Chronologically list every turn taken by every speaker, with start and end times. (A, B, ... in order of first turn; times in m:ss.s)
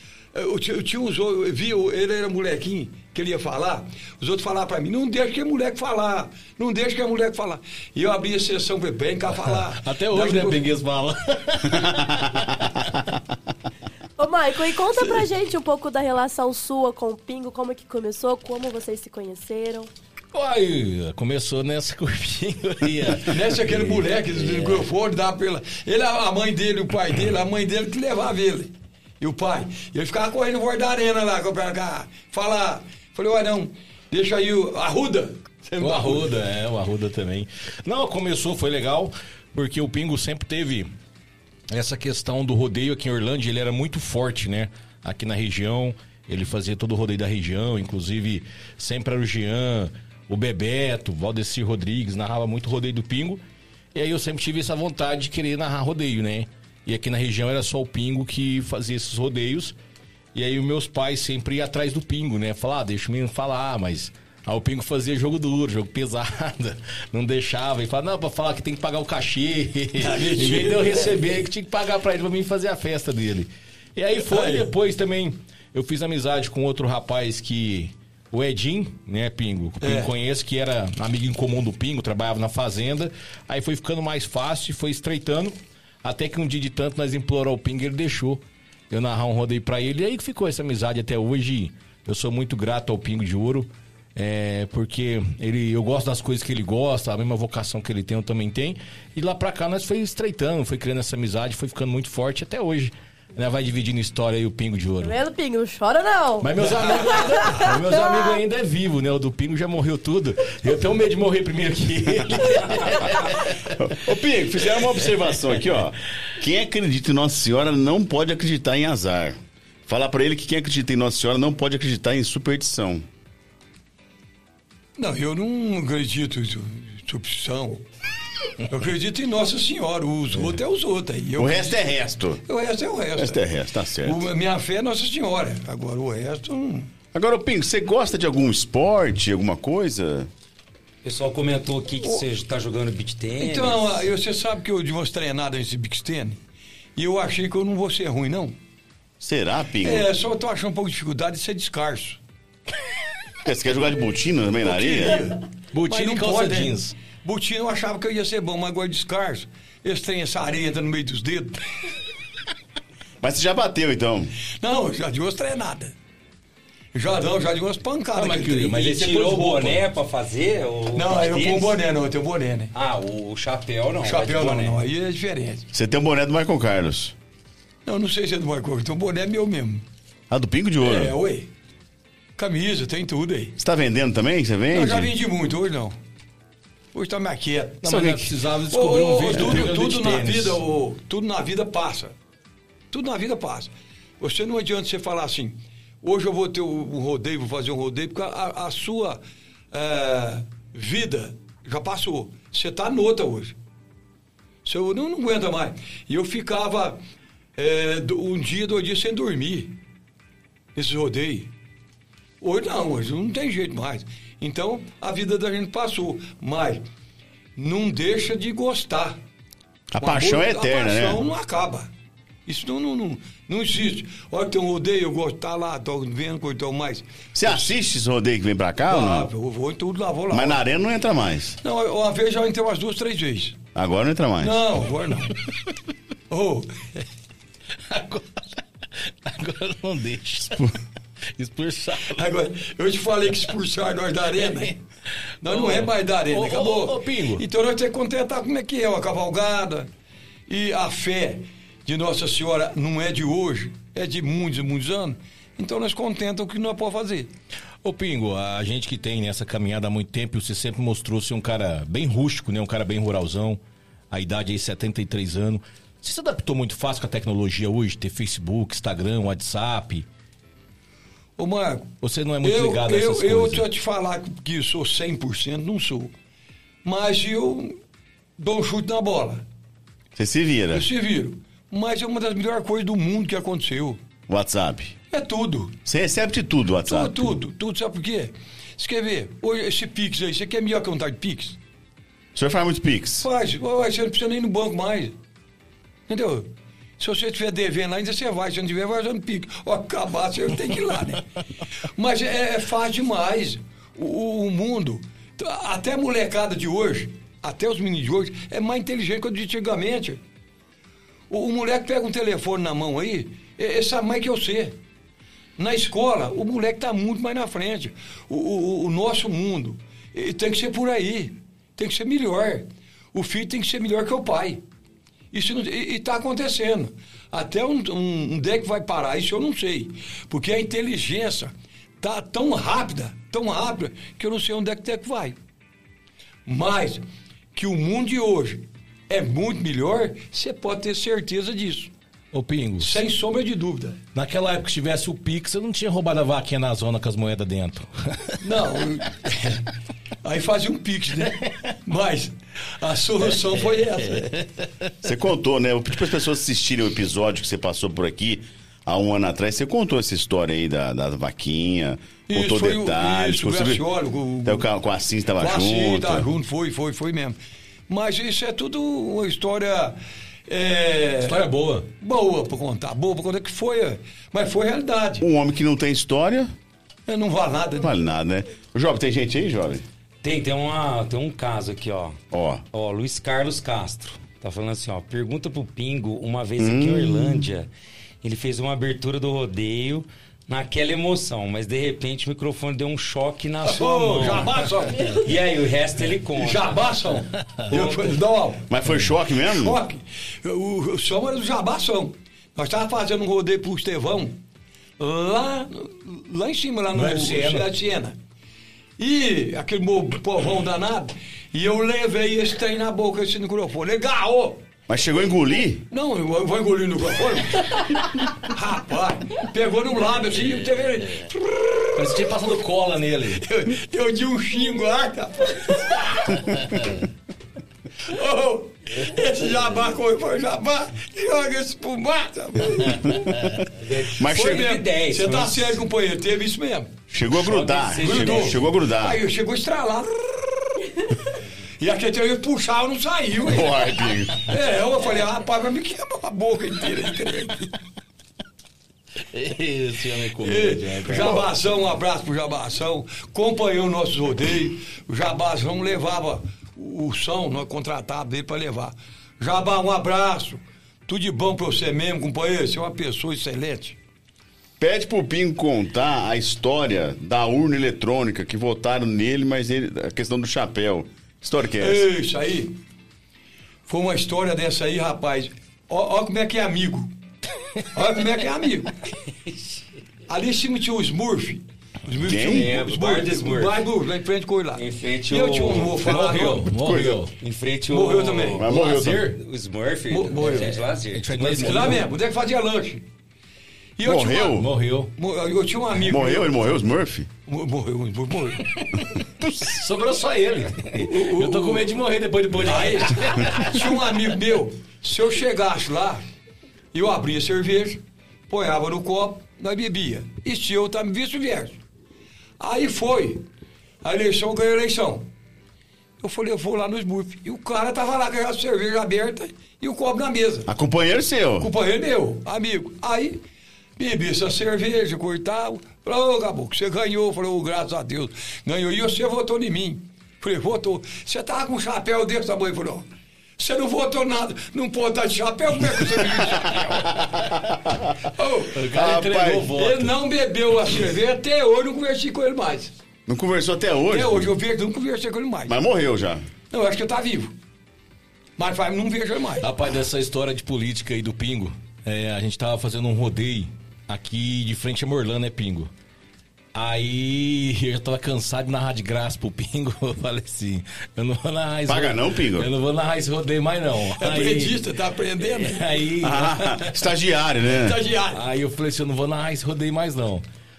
0:00.3-0:10.7 A
0:09.3-0:12.9 B
0:14.2-0:19.9 C
0:20.3-0:24.8 B
0:23.3-0:36.3 A
0:35.8-0:40.9 B
0:41.7-0:53.4 B
0:53.9-0:59.8 B
1:00.3-1:45.2 B
1:10.0-1:11.2 A
1:14.2-1:14.7 A
1:19.8-1:20.1 A
1:45.0-1:48.4 C
1:46.4-1:53.7 B
1:53.7-2:03.1 D
2:05.0-2:07.9 A
2:08.6-2:11.9 A
2:11.4-2:12.4 D
2:12.4-2:13.4 A
2:13.2-2:14.2 D
2:14.0-2:16.9 A
2:17.1-2:20.3 D
2:21.0-2:24.1 E
2:23.4-2:26.4 A
2:27.0-2:28.6 A
2:29.2-2:30.1 D
2:29.8-2:32.2 A
2:33.4-2:35.2 D
2:34.6-2:41.6 A
2:35.7-2:37.0 B
2:43.2-2:44.3 D
2:44.6-2:45.9 A
2:46.9-2:48.8 A
2:48.2-2:49.8 B
2:48.7-2:51.8 E
2:50.9-2:52.7 A
2:52.7-2:54.8 E
2:54.0-2:55.7 A
2:55.7-2:57.1 D
2:57.9-2:59.8 A
3:00.3-3:01.2 D
3:00.8-3:01.5 A
3:02.4-3:03.6 A
3:03.6-3:05.1 D
3:04.7-3:06.0 A
3:06.9-3:12.2 A
3:07.8-3:10.6 B
3:12.9-3:19.2 A
3:19.7-3:23.6 A
3:24.6-3:27.0 A
3:27.6-3:29.8 A
3:30.8-3:31.5 A
3:32.4-3:36.8 A
3:37.6-3:39.2 A
3:39.9-3:41.2 D
3:40.0-3:41.9 A
3:42.5-3:47.7 A
3:47.3-3:49.3 D
3:48.9-3:50.6 A
3:50.3-3:51.6 D
3:51.6-3:53.6 A
3:53.8-3:54.6 D
3:54.4-3:55.4 A
3:56.3-3:57.0 A
3:57.9-3:58.6 B
3:59.2-4:00.8 B
4:01.4-4:02.3 B
4:02.1-4:04.8 A
4:04.5-4:04.7 B
4:05.4-4:09.9 A
4:05.4-4:07.4 B
4:10.5-4:17.3 A
4:17.8-4:30.1 B
4:31.4-4:36.1 A
4:32.0-4:33.7 B
4:36.8-4:37.8 A
4:38.4-4:39.4 A
4:40.2-4:40.9 D
4:40.7-4:44.0 A
4:44.3-4:45.0 D
4:45.1-4:45.8 A
4:45.9-4:47.4 D
4:46.9-4:51.6 A
4:52.4-4:53.3 D
4:53.2-4:55.2 A
4:56.1-5:01.3 A
5:01.8-5:10.2 A
5:11.3-5:14.8 A
5:15.6-5:24.6 A
5:25.3-5:35.4 A
5:36.5-5:41.9 A
5:42.3-5:43.0 B
5:42.8-5:44.0 A
5:44.2-5:48.4 B
5:48.4-5:49.7 A
5:50.2-5:54.4 A
5:54.2-5:54.7 B
5:55.0-6:03.9 D
6:02.3-6:04.7 A
6:04.4-6:06.3 D
6:05.4-6:07.4 A
6:07.9-6:11.4 A
6:11.2-6:11.9 B
6:12.0-6:15.2 A
6:15.2-6:16.5 D
6:17.1-6:17.9 A
6:17.8-6:19.8 D
6:20.2-6:22.2 E
6:22.3-6:22.6 D
6:22.7-6:27.7 E
6:26.6-6:27.5 D
6:28.2-6:34.6 E
6:33.6-6:35.2 A
6:35.0-6:35.3 C
6:35.2-6:36.8 E
6:36.4-6:38.7 A
6:37.7-6:38.2 E
6:38.7-6:39.8 D
6:39.4-6:44.4 A
6:45.0-6:48.2 A
6:46.9-6:47.7 B
6:49.0-6:54.6 A
6:54.9-6:55.8 D
6:55.9-7:02.3 A
7:02.0-7:03.4 B
7:03.4-7:06.5 A
7:08.0-7:13.2 A
7:13.1-7:13.7 D
7:13.7-7:15.8 E
7:14.2-7:14.7 D
7:14.3-7:16.9 A
7:17.1-7:19.2 D
7:17.4-7:18.8 E
7:18.0-7:21.1 A
7:21.8-7:23.8 A
7:23.5-7:24.4 D
7:24.4-7:27.8 A
7:29.3-7:31.4 B
7:30.4-7:44.0 A
7:44.8-7:52.1 D
7:51.8-7:52.8 A
7:53.9-7:57.1 A
7:57.9-7:59.0 A
7:59.5-7:59.8 E
8:00.3-8:06.8 A
8:02.2-8:02.7 D
8:02.4-8:03.8 E
8:04.7-8:06.1 E
8:06.0-8:07.3 B
8:06.7-8:07.2 D
8:07.4-8:08.7 E
8:07.9-8:08.6 A
8:08.6-8:09.3 D
8:08.7-8:09.4 B
8:09.3-8:12.1 E
8:10.1-8:10.8 A
8:11.1-8:12.1 B
8:11.6-8:13.0 A
8:14.0-8:16.6 A
8:14.0-8:14.7 D
8:14.5-8:15.1 B
8:16.0-8:17.3 D
8:17.5-8:18.7 A
8:18.7-8:24.0 B
8:21.0-8:21.9 A
8:22.6-8:26.2 A
8:26.9-8:31.8 A
8:32.6-8:33.4 A
8:34.0-8:35.3 A
8:36.2-8:40.7 A
8:40.7-8:41.7 D
8:41.6-8:43.4 A
8:44.0-8:53.1 A
8:53.6-8:57.1 A
8:58.3-8:58.8 A
8:58.7-9:00.1 B
8:58.9-8:59.7 D
8:59.7-9:02.9 A
9:03.3-9:04.5 D
9:04.1-9:05.8 A
9:05.7-9:06.5 D
9:06.7-9:07.6 A
9:08.6-9:09.7 A
9:09.6-9:15.9 B
9:16.7-9:24.9 B
9:21.9-9:22.7 D
9:24.1-9:26.0 A
9:25.4-9:27.0 B
9:26.2-9:28.0 D
9:27.6-9:28.4 A
9:28.3-9:30.4 B